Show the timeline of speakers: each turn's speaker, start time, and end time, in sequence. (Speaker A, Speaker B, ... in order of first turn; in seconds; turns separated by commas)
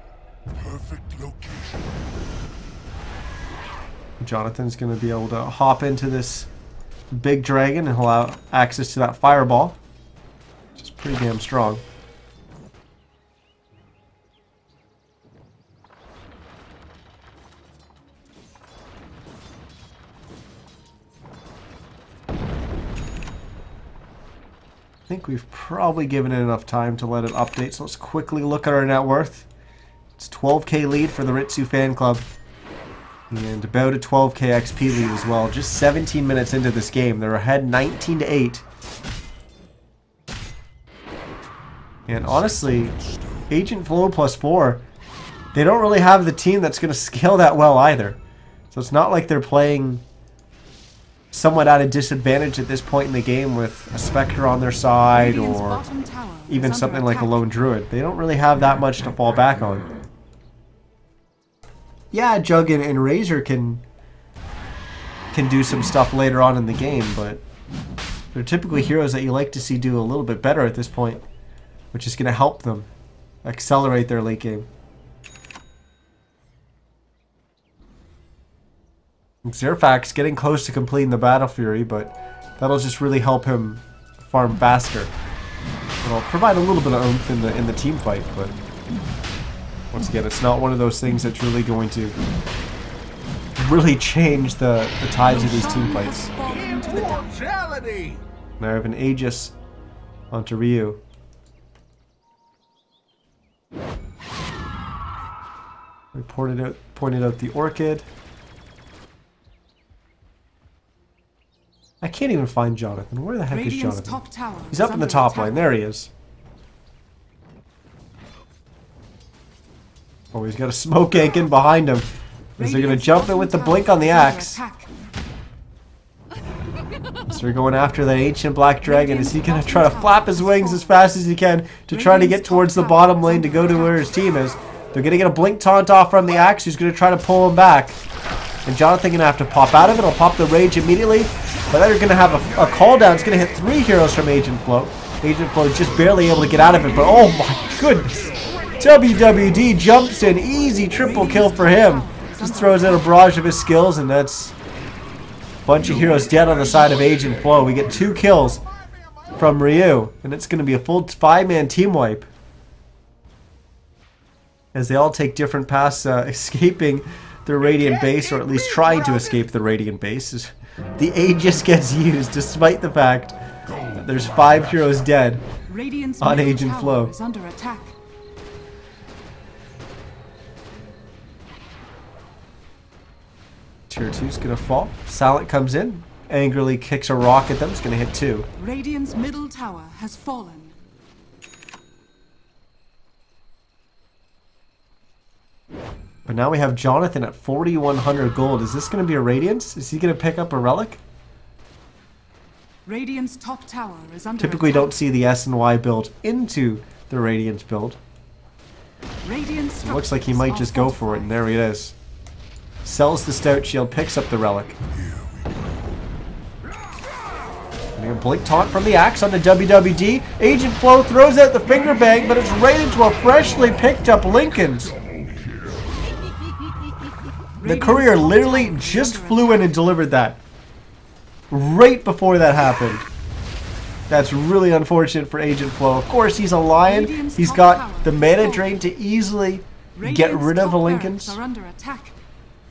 Speaker A: 0.5-2.0, Speaker B: 4.2-6.5, Speaker B: 7.1-9.8, Speaker B: 10.8-11.8, Speaker B: 25.1-29.5, Speaker B: 30.2-32.3, Speaker B: 33.3-38.6, Speaker B: 42.1-43.0, Speaker B: 43.5-44.8, Speaker B: 45.5-48.2, Speaker B: 48.7-50.0, Speaker B: 51.3-55.8, Speaker C: 55.1-57.5, Speaker B: 56.5-59.9, Speaker B: 62.1-63.8, Speaker B: 65.3-67.4, Speaker B: 68.3-71.2, Speaker B: 71.9-72.9, Speaker B: 73.4-74.7, Speaker B: 79.4-85.1, Speaker B: 86.0-88.5, Speaker B: 89.9-92.2, Speaker B: 93.6-96.3, Speaker C: 95.2-97.5, Speaker A: 96.4-98.2, Speaker B: 98.6-99.5, Speaker B: 100.3-101.0, Speaker B: 106.1-108.1, Speaker B: 112.0-116.1, Speaker C: 113.5-115.7, Speaker B: 120.3-124.6, Speaker C: 122.6-124.9, Speaker B: 127.3-138.0, Speaker C: 128.8-131.1, Speaker C: 131.9-134.2, Speaker B: 138.7-154.6, Speaker C: 151.0-153.2, Speaker B: 155.7-158.7, Speaker B: 159.4-162.3, Speaker B: 164.7-173.4, Speaker B: 173.9-175.4, Speaker C: 175.7-178.0, Speaker B: 176.2-177.1, Speaker B: 183.9-188.5, Speaker C: 188.6-190.8, Speaker B: 196.3-201.0, Speaker C: 202.8-205.0, Speaker B: 204.4-208.0, Speaker C: 209.2-211.4, Speaker B: 209.8-211.9, Speaker B: 212.8-214.8, Speaker A: 214.9-215.8, Speaker B: 218.0-224.9, Speaker A: 225.0-225.9, Speaker C: 227.6-229.8, Speaker B: 227.6-230.4, Speaker B: 231.5-233.1, Speaker B: 234.1-241.4, Speaker C: 236.8-238.8, Speaker C: 239.9-242.2